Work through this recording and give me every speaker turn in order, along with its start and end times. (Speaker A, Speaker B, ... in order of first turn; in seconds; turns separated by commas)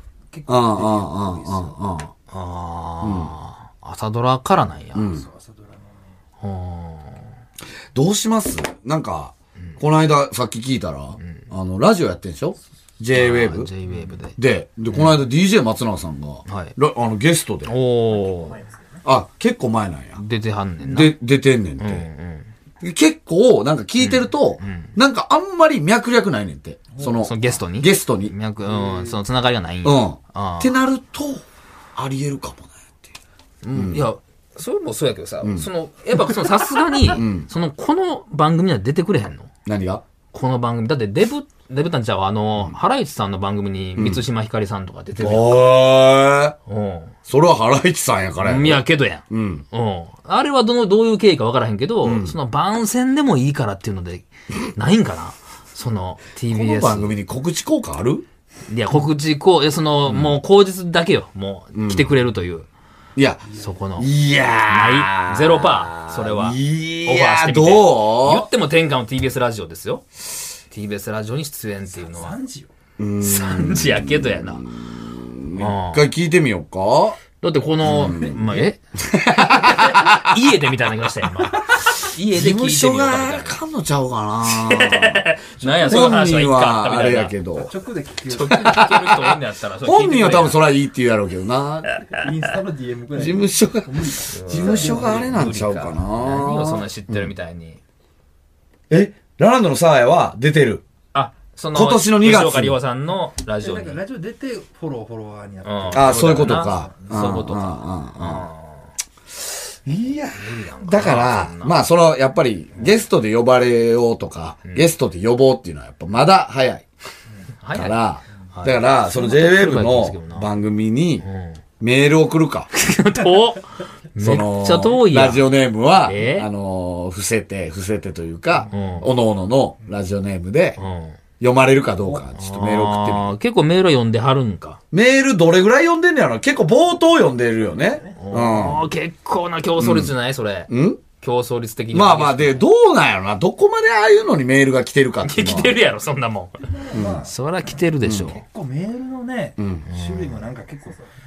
Speaker A: 0.3-1.8, Speaker B: 0.5-2.1, Speaker C: 2.3-5.1, Speaker B: 3.0-3.3, Speaker B: 4.9-5.2, Speaker A: 5.1-6.1, Speaker C: 6.4-7.3, Speaker B: 7.9-13.7, Speaker C: 13.1-14.4, Speaker B: 14.3-17.7, Speaker C: 14.9-15.2, Speaker C: 16.5-16.7, Speaker C: 17.6-18.6, Speaker B: 19.0-20.2, Speaker C: 20.1-21.2, Speaker B: 20.8-22.1, Speaker C: 21.8-22.5, Speaker B: 22.8-28.3, Speaker C: 24.0-24.9, Speaker C: 27.1-30.7, Speaker A: 28.6-29.2, Speaker B: 29.8-31.4, Speaker B: 31.9-33.1, Speaker C: 33.6-39.5, Speaker B: 33.7-34.1, Speaker B: 35.4-35.7, Speaker B: 37.1-37.5, Speaker B: 39.6-40.0, Speaker C: 40.3-45.7, Speaker B: 44.0-44.2, Speaker B: 45.1-46.5, Speaker C: 46.7-47.1, Speaker B: 47.2-49.6, Speaker C: 48.4-57.1, Speaker B: 52.0-52.4, Speaker B: 56.5-58.2, Speaker C: 58.7-62.7, Speaker B: 60.0-60.4, Speaker B: 61.7-62.1, Speaker B: 63.1-63.4, Speaker A: 63.5-63.8, Speaker C: 63.5-64.1, Speaker B: 64.0-68.5, Speaker C: 64.6-70.1, Speaker C: 70.7-72.4, Speaker A: 71.9-72.7, Speaker B: 73.0-77.2, Speaker C: 73.2-74.7, Speaker C: 75.5-76.1, Speaker C: 77.4-78.8, Speaker B: 77.8-78.6, Speaker A: 78.0-78.7, Speaker B: 79.1-80.4, Speaker C: 79.5-83.6, Speaker B: 82.2-85.2, Speaker C: 84.5-87.4, Speaker B: 85.8-87.7, Speaker A: 87.6-88.9, Speaker C: 88.3-90.6, Speaker B: 88.5-92.0, Speaker A: 92.0-95.4, Speaker B: 93.1-97.3, Speaker C: 94.3-97.8, Speaker B: 98.9-100.8, Speaker C: 101.1-104.0, Speaker B: 101.7-102.8, Speaker A: 103.6-107.3, Speaker C: 105.6-108.9, Speaker B: 105.9-108.5, Speaker B: 109.8-116.8, Speaker C: 110.3-111.8, Speaker C: 117.6-118.0, Speaker B: 117.7-121.2, Speaker C: 118.5-120.5, Speaker C: 121.2-121.6, Speaker B: 121.8-122.7, Speaker C: 122.7-125.4, Speaker B: 124.2-130.8, Speaker C: 126.0-126.5, Speaker C: 128.6-129.1, Speaker C: 130.8-131.2, Speaker B: 131.4-133.3, Speaker C: 132.3-134.8, Speaker B: 134.9-138.8, Speaker C: 138.2-142.7, Speaker B: 139.8-140.1, Speaker B: 140.7-141.0, Speaker B: 141.9-145.8, Speaker C: 145.2-146.6, Speaker A: 146.6-151.0, Speaker B: 146.9-147.2, Speaker C: 147.2-148.4, Speaker B: 148.0-148.3, Speaker B: 149.6-149.9, Speaker C: 149.9-150.4